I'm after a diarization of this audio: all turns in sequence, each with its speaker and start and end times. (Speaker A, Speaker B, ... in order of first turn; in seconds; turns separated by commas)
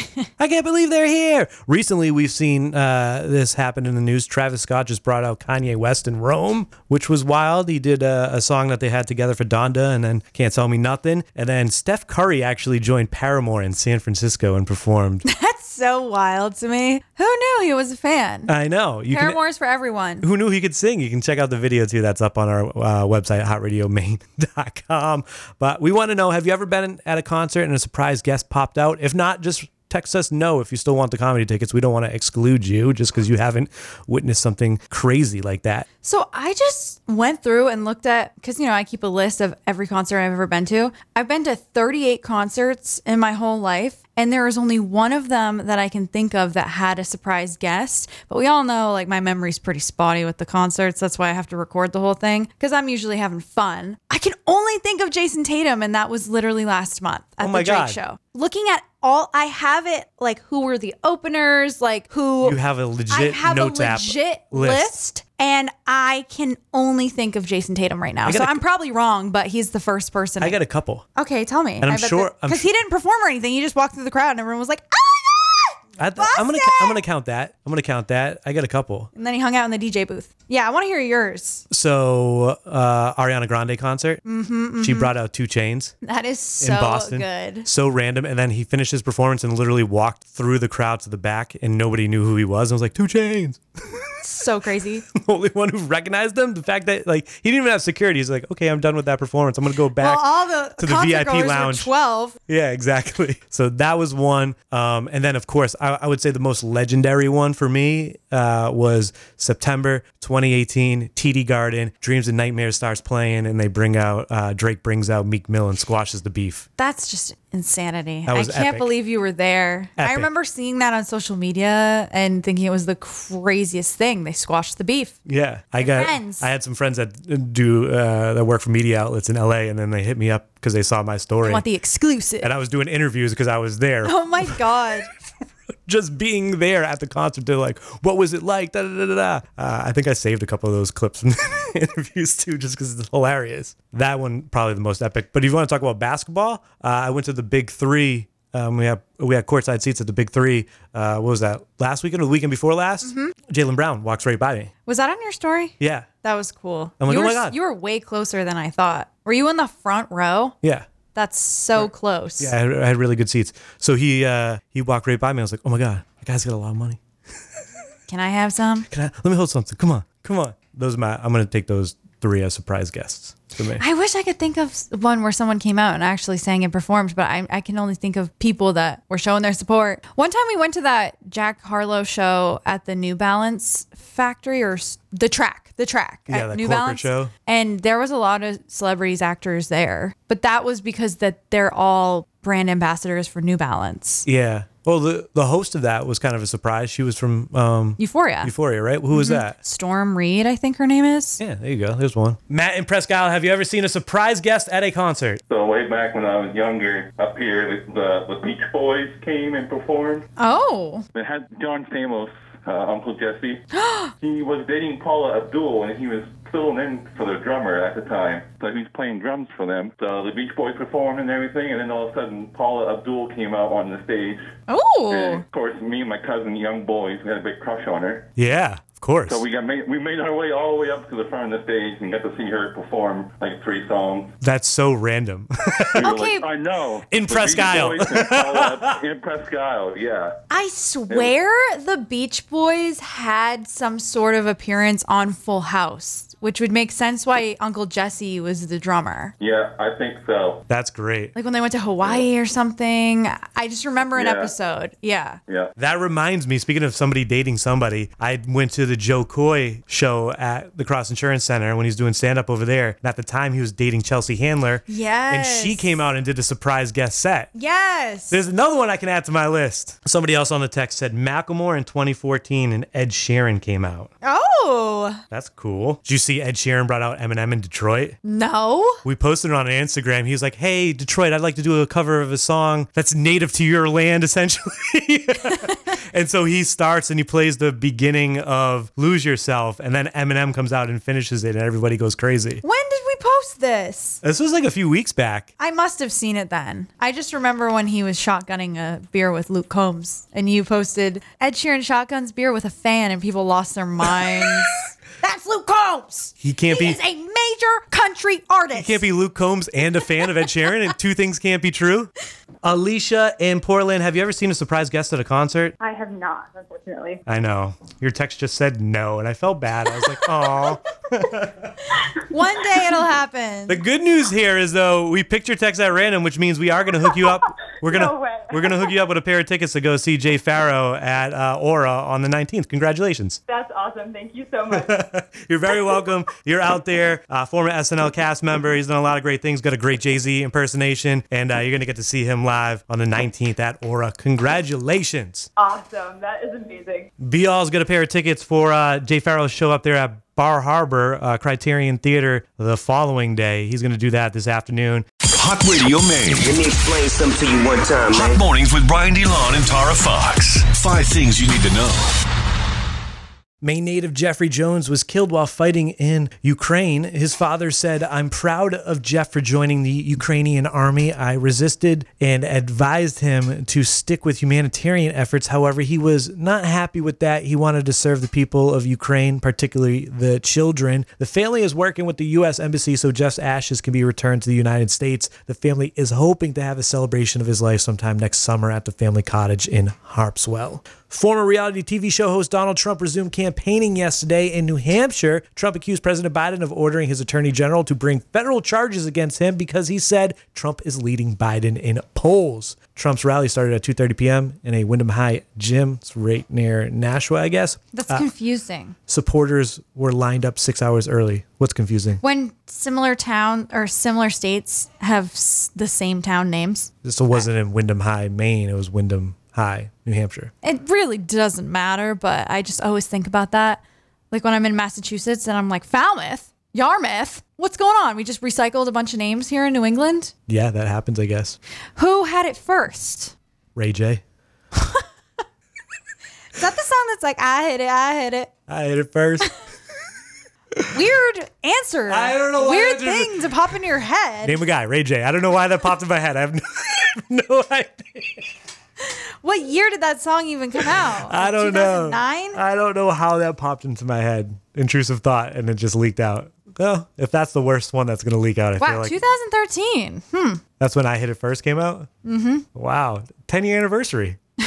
Speaker A: 0.4-15.3, Speaker B: 15.3-18.5, Speaker A: 18.5-19.4, Speaker B: 19.1-20.3, Speaker A: 20.2-35.9, Speaker B: 36.0-70.6, Speaker A: 57.4-58.0, Speaker A: 62.4-64.9, Speaker A: 68.3-68.6, Speaker A: 70.4-71.1, Speaker B: 71.2-77.0, Speaker A: 71.8-72.7, Speaker A: 76.0-79.1, Speaker B: 79.2-81.6, Speaker A: 81.7-84.2, Speaker B: 84.2-85.2, Speaker A: 84.8-86.0, Speaker B: 86.0-87.7, Speaker A: 86.6-94.1, Speaker B: 94.2-95.0, Speaker A: 95.1-101.9, Speaker B: 100.0-102.4, Speaker A: 102.5-116.7, Speaker B: 116.8-125.2, Speaker A: 118.3-118.9, Speaker A: 120.0-120.3, Speaker A: 125.3-131.7, Speaker B: 125.8-126.5, Speaker B: 131.4-132.5, Speaker A: 132.4-134.6, Speaker B: 134.0-135.1, Speaker A: 135.8-154.7, Speaker B: 153.0-153.3, Speaker B: 154.9-160.6, Speaker A: 155.8-156.1, Speaker A: 157.0-157.6, Speaker A: 160.6-160.9, Speaker B: 161.2-162.5, Speaker A: 161.8-167.0, Speaker B: 168.1-168.9, Speaker A: 168.9-173.8, Speaker B: 173.8-194.3, Speaker A: 186.3-187.3, Speaker A: 194.3-199.6, Speaker B: 198.0-198.5, Speaker B: 199.1-201.4, Speaker A: 201.4-205.4, Speaker C: 205.5-210.3, Speaker B: 210.4-211.1, Speaker C: 211.2-213.7, Speaker B: 213.7-214.1, Speaker C: 214.2-224.5, Speaker B: 224.7-225.4, Speaker C: 225.1-228.3, Speaker A: 228.4-229.4, Speaker C: 229.3-234.3, Speaker A: 234.4-236.1, Speaker B: 235.9-236.4, Speaker C: 235.9-240.4, Speaker A: 237.1-239.0, Speaker B: 240.5-249.3, Speaker C: 249.4-250.6, Speaker A: 250.7-251.3, Speaker B: 251.3-255.4, Speaker C: 254.2-254.5, Speaker A: 255.8-267.5, Speaker B: 264.9-265.9, Speaker B: 267.6-268.4, Speaker A: 268.3-274.1, Speaker B: 274.2-275.2, Speaker A: 275.3-278.2, Speaker B: 278.2-279.0, Speaker A: 279.0-292.6, Speaker B: 292.6-294.2, Speaker A: 294.2-295.5, Speaker B: 295.6-309.0, Speaker A: 306.4-307.0, Speaker A: 308.7-312.1, Speaker A: 312.6-315.8, Speaker D: 315.8-317.2, Speaker A: 317.3-321.8, Speaker B: 322.1-323.8, Speaker A: 323.7-333.4, Speaker D: 327.9-328.8, Speaker D: 333.5-334.9, Speaker A: 334.7-345.5, Speaker D: 345.6-347.1, Speaker A: 347.2-355.1, Speaker E: 355.4-356.5, Speaker F: 356.4-358.4, Speaker E: 358.1-362.1, Speaker A: 363.6-408.3, Speaker B: 407.9-409.0, Speaker A: 409.1-412.2, Speaker B: 412.2-416.9, Speaker A: 417.0-420.5, Speaker B: 420.6-430.3, Speaker A: 430.5-431.6, Speaker B: 432.0-433.3, Speaker A: 433.8-434.2, Speaker B: 434.8-435.0, Speaker B: 436.6-438.5, Speaker A: 438.7-439.5, Speaker B: 440.9-444.6, Speaker A: 442.1-443.5, Speaker A: 444.4-448.5, Speaker B: 449.0-452.6, Speaker A: 451.2-459.2, Speaker B: 458.8-460.6, Speaker A: 460.8-462.1, Speaker B: 462.2-462.7, Speaker A: 462.7-464.4